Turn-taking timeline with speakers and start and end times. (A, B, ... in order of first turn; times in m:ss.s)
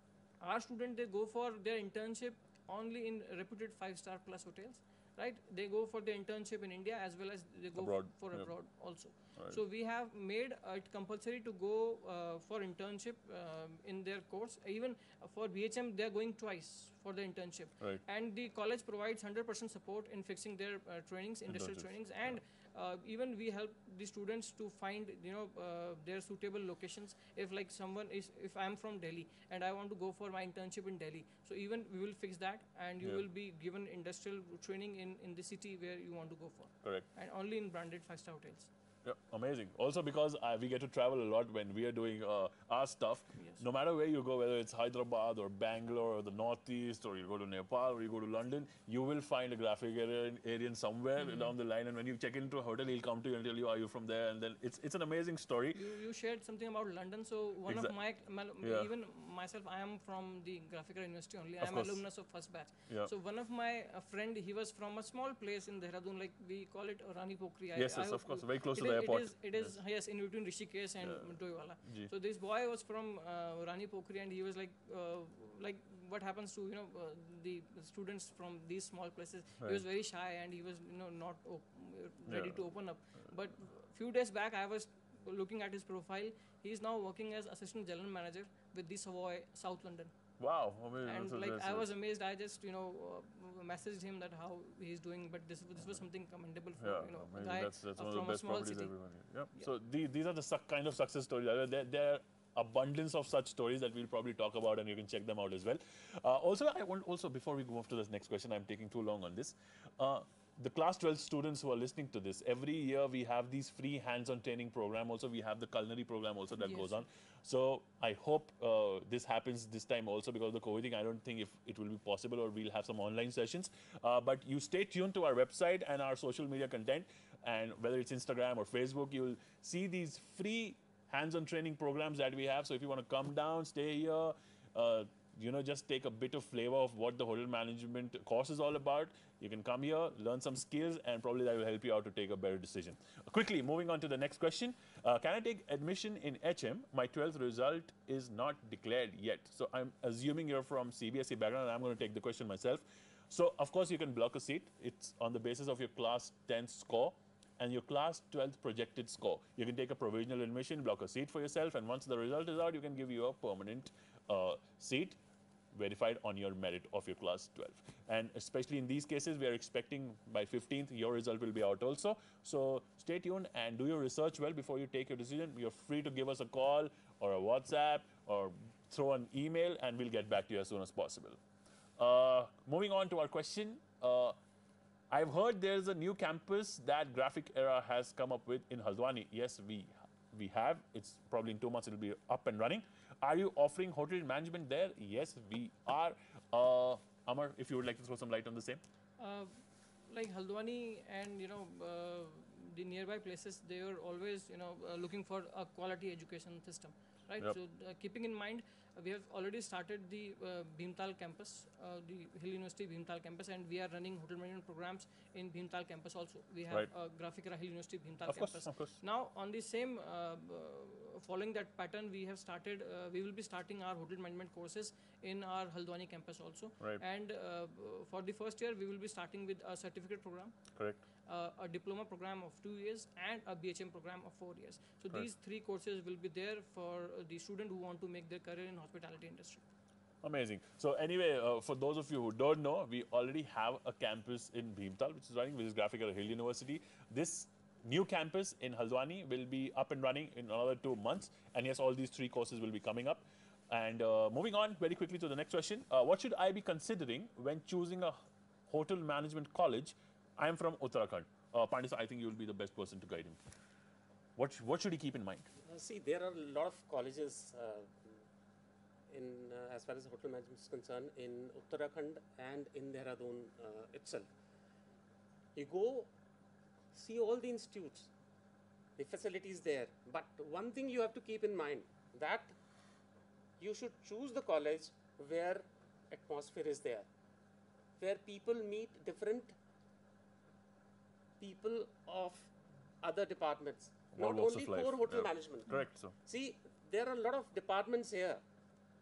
0:00.4-0:38.7 A
0:07.8-0:08.5 B
0:21.5-0:22.4 B
0:33.0-0:33.3 B
0:39.0-0:55.9 B
0:51.2-0:51.5 A
0:55.8-1:30.1 A
0:57.7-0:58.0 B
0:58.6-0:58.9 B
1:01.6-1:02.0 B
1:07.8-1:09.8 B
1:11.0-1:12.1 B
1:19.6-1:19.8 B
1:22.3-1:22.7 B
1:30.4-1:31.9 B
1:31.0-1:38.9 A
1:36.8-2:45.2 B
1:56.6-1:56.9 A
2:45.7-3:01.4 B
3:02.0-3:04.4 B
3:05.1-3:18.8 B
3:19.2-3:19.5 A
3:20.1-3:50.5 A
3:38.2-3:39.0 B
3:50.8-3:51.0 B
3:51.3-3:59.6 A
4:00.2-4:18.2 B
4:18.7-4:23.4 B
4:24.4-4:25.5 B
4:25.7-4:28.2 C
4:29.1-4:34.3 C
4:35.6-4:36.1 C
4:36.9-4:38.1 C
4:39.0-4:42.5 C
4:43.6-4:47.1 C
4:48.0-4:49.6 C
4:51.4-4:52.5 C
4:53.0-4:55.7 C
4:54.1-4:56.1 B
4:56.2-4:58.4 C